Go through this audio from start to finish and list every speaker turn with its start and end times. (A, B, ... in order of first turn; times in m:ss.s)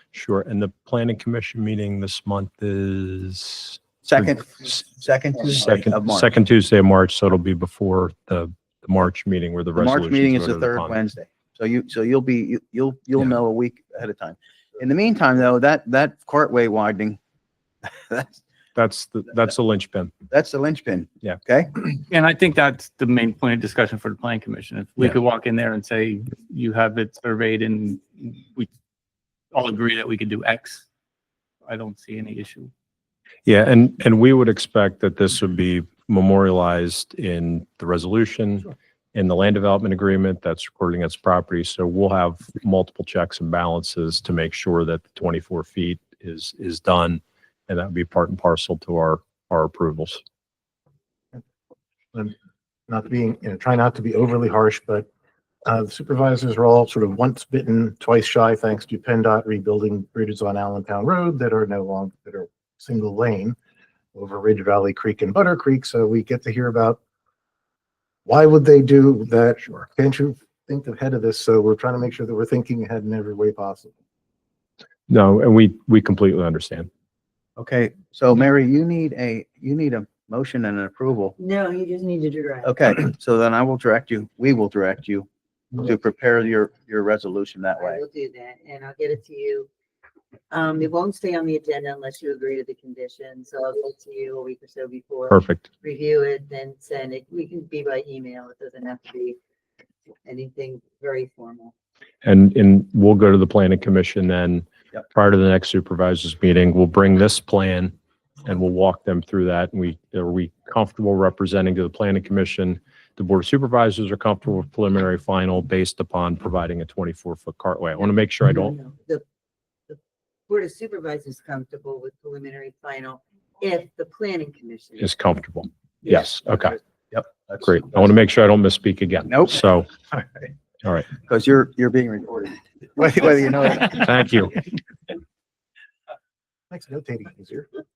0:00.1-0:04.4 A
0:04.0-0:06.3 B
0:05.5-0:11.0 A
0:09.8-0:17.2 B
0:18.1-0:18.4 B
0:18.8-0:20.1 A
0:20.3-0:21.7 B
0:22.1-0:28.7 C
0:29.5-0:30.8 C
0:31.6-0:32.7 C
0:33.5-0:50.2 A
0:52.9-0:55.1 D
0:55.7-1:03.6 D
1:04.2-1:07.0 D
1:08.2-1:13.9 D
1:15.1-1:16.9 A
1:17.6-1:21.4 B
1:21.4-1:23.0 E
1:22.6-1:28.0 B
1:27.8-1:29.7 E
1:30.5-1:39.4 E
1:35.3-1:35.7 A
1:40.2-1:41.7 E
1:42.2-1:47.9 A
1:48.4-1:58.8 A
1:58.4-1:59.2 E
1:59.9-2:05.1 E
2:05.0-2:06.8 A
2:07.1-2:07.6 B
2:07.5-2:09.9 A
2:09.3-2:09.6 B
2:10.8-2:11.1 A
2:11.2-2:14.1 B
2:14.0-2:14.5 A
2:16.7-2:17.7 D